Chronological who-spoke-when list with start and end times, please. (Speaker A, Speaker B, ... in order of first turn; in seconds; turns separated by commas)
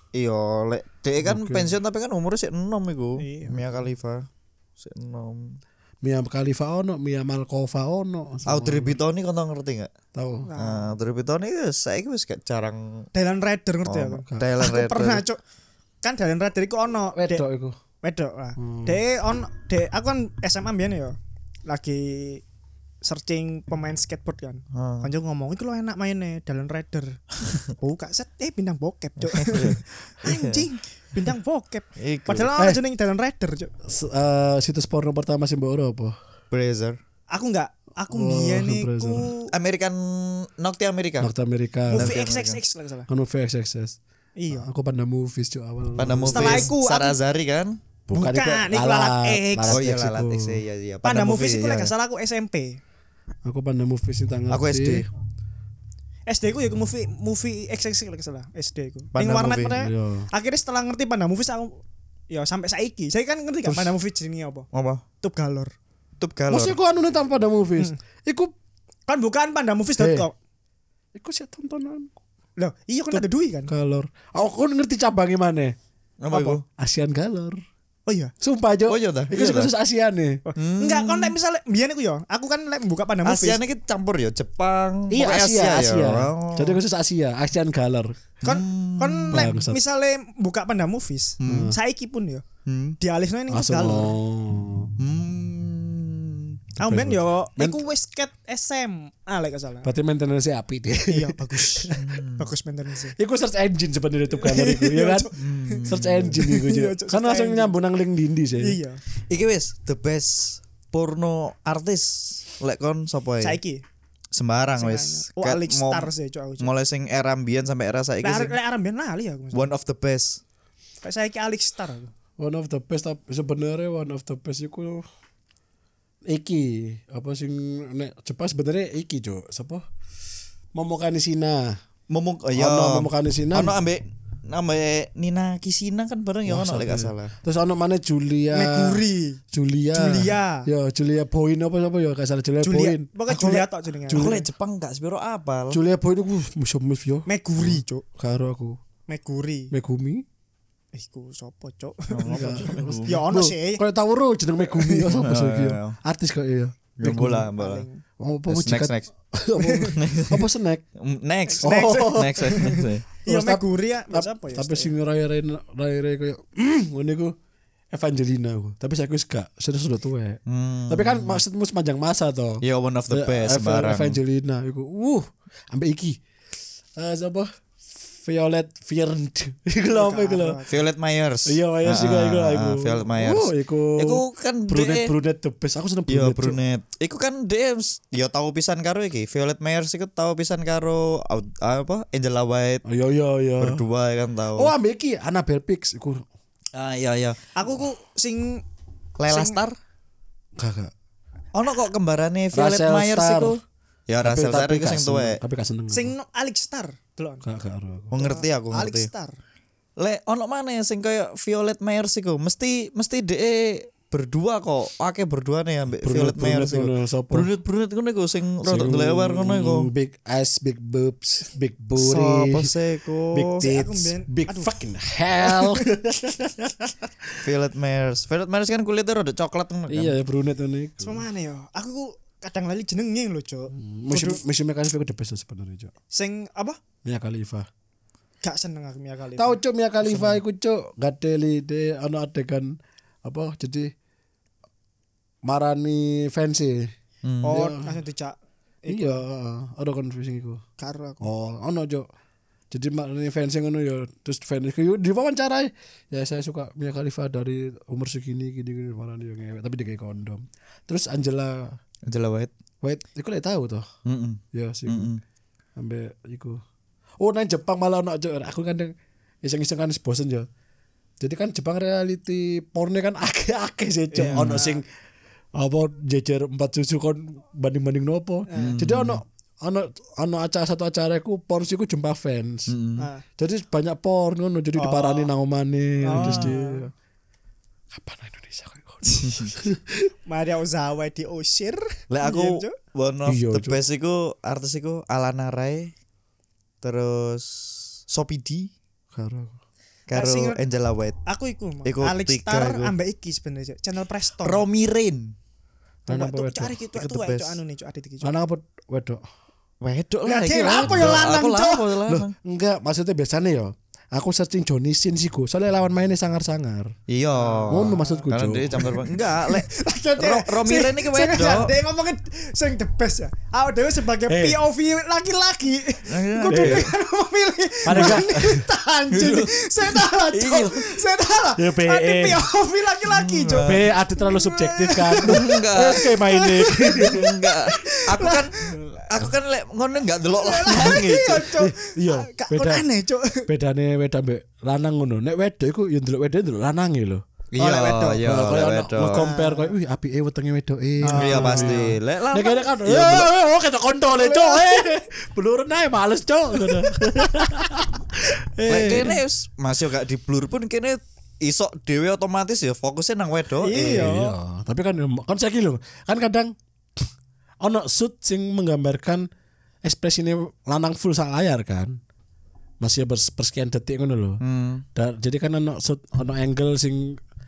Speaker A: 0.1-5.6, Speaker B: 1.2-1.8, Speaker C: 3.2-3.8, Speaker B: 6.0-9.0, Speaker A: 8.4-9.9, Speaker B: 10.1-10.5, Speaker C: 10.4-10.9, Speaker A: 10.6-13.1, Speaker C: 13.1-15.4, Speaker A: 13.9-15.2, Speaker C: 16.0-17.4, Speaker B: 17.1-17.8, Speaker C: 18.0-21.1, Speaker B: 18.6-19.0, Speaker C: 21.7-22.4, Speaker C: 23.0-27.2, Speaker A: 24.7-25.1, Speaker C: 27.8-33.7, Speaker A: 29.2-30.7, Speaker A: 32.0-32.5, Speaker B: 33.9-36.1, Speaker A: 36.5-37.0, Speaker C: 37.3-39.5, Speaker B: 38.1-39.3, Speaker A: 39.5-41.3, Speaker B: 41.2-42.1, Speaker C: 41.9-43.1, Speaker A: 41.9-42.6, Speaker B: 43.1-44.0, Speaker C: 44.4-44.7, Speaker B: 44.5-46.7, Speaker A: 46.0-47.8, Speaker C: 46.3-47.2, Speaker B: 48.1-50.6, Speaker C: 48.1-49.8, Speaker A: 49.7-51.9, Speaker C: 51.0-52.8, Speaker B: 53.4-55.1, Speaker A: 54.5-55.0, Speaker C: 56.3-64.7, Speaker A: 59.1-59.8, Speaker B: 59.8-60.3, Speaker B: 63.6-63.9, Speaker A: 64.7-65.0, Speaker C: 65.2-65.7, Speaker A: 66.2-66.8, Speaker B: 66.5-68.5, Speaker C: 69.1-70.3, Speaker B: 70.0-70.3, Speaker B: 71.1-72.1, Speaker C: 72.6-73.7, Speaker B: 73.1-75.8, Speaker A: 76.2-76.6, Speaker C: 76.3-76.6, Speaker B: 76.8-77.6, Speaker C: 78.1-78.3, Speaker B: 78.4-80.4, Speaker A: 78.9-79.7, Speaker C: 80.4-83.6, Speaker A: 80.6-81.4, Speaker A: 83.2-86.8, Speaker B: 85.1-88.1, Speaker A: 88.4-89.5, Speaker C: 88.4-92.4, Speaker B: 89.3-89.8, Speaker A: 91.4-91.7, Speaker B: 91.5-91.8, Speaker A: 92.7-93.0, Speaker C: 93.0-94.1, Speaker B: 93.5-94.9, Speaker A: 95.0-96.6, Speaker C: 96.8-99.9, Speaker B: 96.8-97.8, Speaker B: 99.8-102.0, Speaker C: 101.1-103.1, Speaker A: 101.9-102.5, Speaker B: 103.2-105.3, Speaker C: 104.4-107.7, Speaker A: 105.4-106.4, Speaker B: 105.9-108.8, Speaker C: 108.6-109.0, Speaker A: 109.3-113.6, Speaker C: 113.4-113.8, Speaker A: 114.3-118.5, Speaker C: 114.8-116.7, Speaker C: 118.2-119.7, Speaker A: 119.5-120.4, Speaker C: 121.0-122.1, Speaker B: 122.4-125.0, Speaker B: 126.3-129.8, Speaker B: 130.8-131.8, Speaker A: 132.1-137.3, Speaker B: 132.5-133.8, Speaker B: 136.4-143.1, Speaker C: 138.5-139.4, Speaker C: 139.9-140.7, Speaker C: 142.6-144.4, Speaker A: 143.3-145.8, Speaker B: 144.1-144.4, Speaker B: 145.7-148.8, Speaker C: 147.3-148.0, Speaker C: 149.1-149.7, Speaker B: 149.7-150.2, Speaker C: 150.9-153.8, Speaker A: 152.1-153.2, Speaker B: 152.3-157.5, Speaker C: 154.7-155.1, Speaker A: 155.2-155.9, Speaker A: 157.0-157.9, Speaker C: 157.5-158.0, Speaker B: 158.2-160.8, Speaker A: 158.5-159.1, Speaker C: 159.6-159.9, Speaker A: 159.9-163.0, Speaker C: 161.5-164.9, Speaker B: 161.6-162.6, Speaker B: 163.2-167.3, Speaker B: 167.9-176.2, Speaker A: 170.5-171.4, Speaker A: 172.6-174.2, Speaker B: 176.9-177.5, Speaker B: 178.1-180.6, Speaker C: 179.9-180.8, Speaker A: 180.7-185.1, Speaker B: 181.4-186.6, Speaker A: 186.1-192.8, Speaker B: 192.9-193.8, Speaker A: 193.6-194.7, Speaker B: 194.6-196.2, Speaker A: 196.7-197.4, Speaker C: 197.6-198.6, Speaker A: 199.2-199.8, Speaker C: 199.3-199.6, Speaker B: 200.6-200.9, Speaker A: 201.5-205.4, Speaker B: 202.5-203.6, Speaker B: 204.2-206.1, Speaker C: 205.9-207.4, Speaker B: 207.4-208.2, Speaker A: 208.1-209.1, Speaker C: 208.2-209.4, Speaker A: 210.0-219.9, Speaker B: 216.0-217.5, Speaker B: 218.6-222.7, Speaker A: 221.9-223.6, Speaker B: 223.3-226.9, Speaker C: 223.6-224.7, Speaker C: 225.5-225.8, Speaker A: 227.4-230.1, Speaker B: 229.9-231.2, Speaker C: 231.0-234.4, Speaker B: 233.8-235.9, Speaker C: 236.1-236.8, Speaker B: 237.0-237.7, Speaker C: 238.4-239.6, Speaker B: 239.4-243.9, Speaker B: 245.4-246.9, Speaker A: 247.2-247.6, Speaker C: 247.4-249.2, Speaker B: 247.5-248.0, Speaker B: 248.9-250.6, Speaker C: 250.8-251.3, Speaker B: 251.2-252.1, Speaker B: 252.7-261.8, Speaker A: 262.1-262.5, Speaker B: 262.8-263.9, Speaker A: 264.1-265.2, Speaker B: 264.5-265.1, Speaker B: 265.8-266.6, Speaker B: 267.2-270.5, Speaker B: 271.2-274.9, Speaker C: 274.1-274.8, Speaker A: 274.2-274.6, Speaker B: 275.6-282.8, Speaker C: 278.5-278.8, Speaker A: 278.6-279.2, Speaker A: 282.7-283.1, Speaker C: 283.0-283.2, Speaker B: 283.4-286.9, Speaker C: 284.8-285.3, Speaker C: 286.0-286.9, Speaker A: 286.1-286.6, Speaker B: 287.9-290.1, Speaker C: 289.0-289.3, Speaker A: 289.2-289.5, Speaker C: 290.3-292.8, Speaker A: 292.1-295.9, Speaker B: 293.2-293.8, Speaker A: 296.8-298.7, Speaker B: 299.1-299.6, Speaker A: 300.1-301.2, Speaker C: 300.1-300.6, Speaker C: 301.2-304.6, Speaker A: 301.9-302.9, Speaker A: 304.4-305.4, Speaker B: 306.1-306.8, Speaker C: 306.1-308.4, Speaker A: 306.9-307.6, Speaker B: 308.2-309.2, Speaker A: 309.8-312.3, Speaker C: 310.2-311.9, Speaker B: 310.7-311.2, Speaker B: 312.1-316.9, Speaker A: 317.1-321.7, Speaker C: 317.4-339.0, Speaker B: 317.7-318.9, Speaker B: 324.3-324.6, Speaker A: 326.1-326.9, Speaker B: 326.5-326.9, Speaker B: 327.9-328.6, Speaker A: 327.9-328.5, Speaker A: 329.1-331.0, Speaker B: 331.6-332.4, Speaker A: 333.1-333.9, Speaker B: 333.6-337.3, Speaker A: 335.2-336.0, Speaker A: 337.0-341.4, Speaker C: 340.3-343.5, Speaker B: 340.8-342.9, Speaker B: 343.5-347.2, Speaker A: 347.5-349.3, Speaker C: 347.6-348.2, Speaker B: 348.2-359.2, Speaker C: 349.1-349.7, Speaker C: 351.0-351.9, Speaker A: 351.1-353.3, Speaker C: 354.1-355.0, Speaker A: 358.7-364.1, Speaker C: 363.6-364.4, Speaker B: 363.7-367.0, Speaker B: 367.6-369.3, Speaker B: 369.8-372.0, Speaker B: 372.8-374.4, Speaker A: 374.4-374.9, Speaker B: 374.9-377.2